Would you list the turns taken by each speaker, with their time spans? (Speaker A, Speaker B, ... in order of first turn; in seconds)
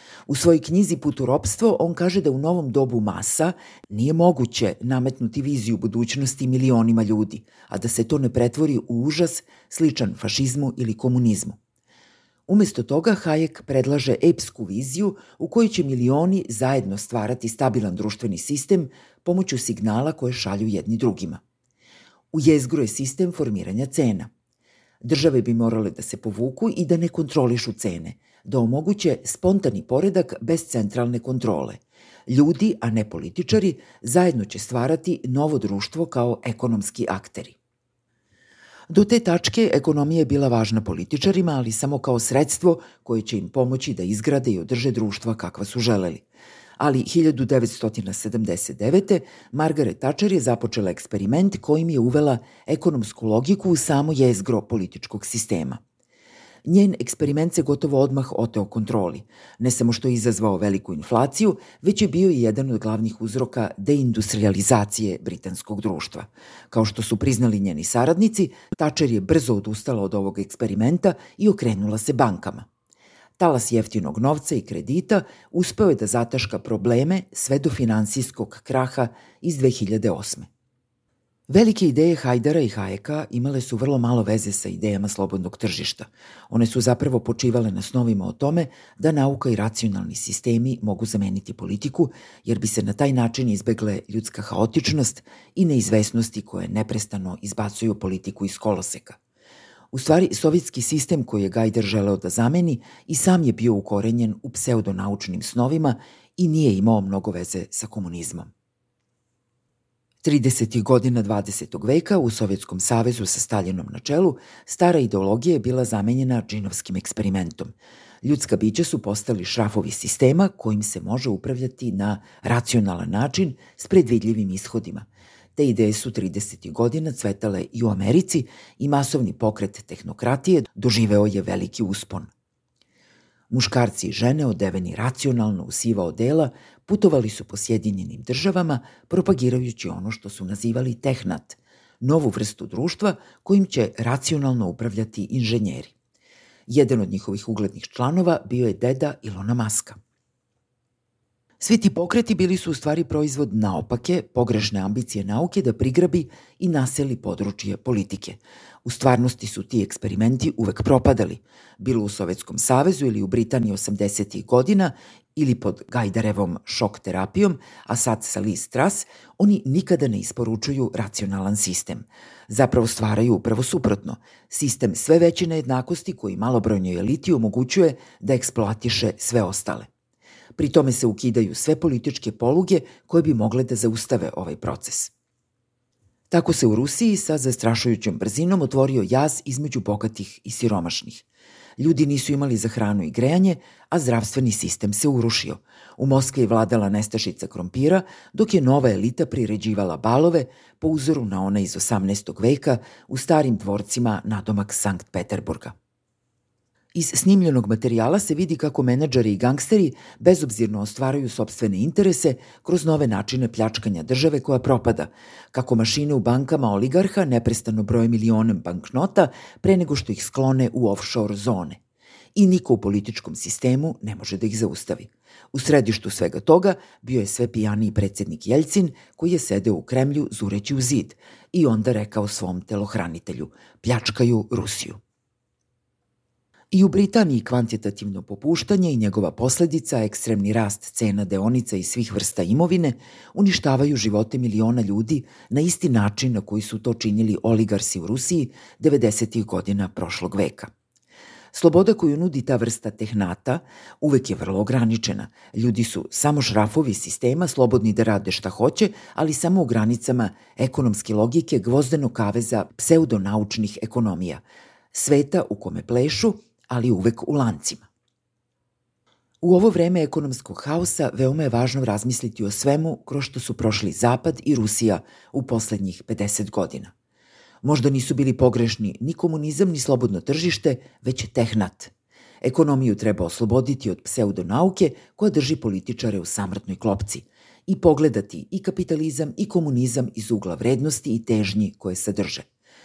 Speaker A: 0.3-11.6, 12.5-21.4, 22.3-24.3, 25.0-37.6, 38.9-46.2, 46.8-55.8, 56.7-72.7, 73.4-80.5, 81.5-99.2, 99.9-108.5, 110.2-132.3, 133.5-145.9, 146.7-150.0, 151.6-179.9, 180.6-185.1, 186.3-191.2, 191.8-205.7, 206.9-221.8, 222.4-235.0, 236.7-250.7, 251.5-264.4, 264.9-267.8, 269.4-276.9, 277.6-281.9, 282.4-292.5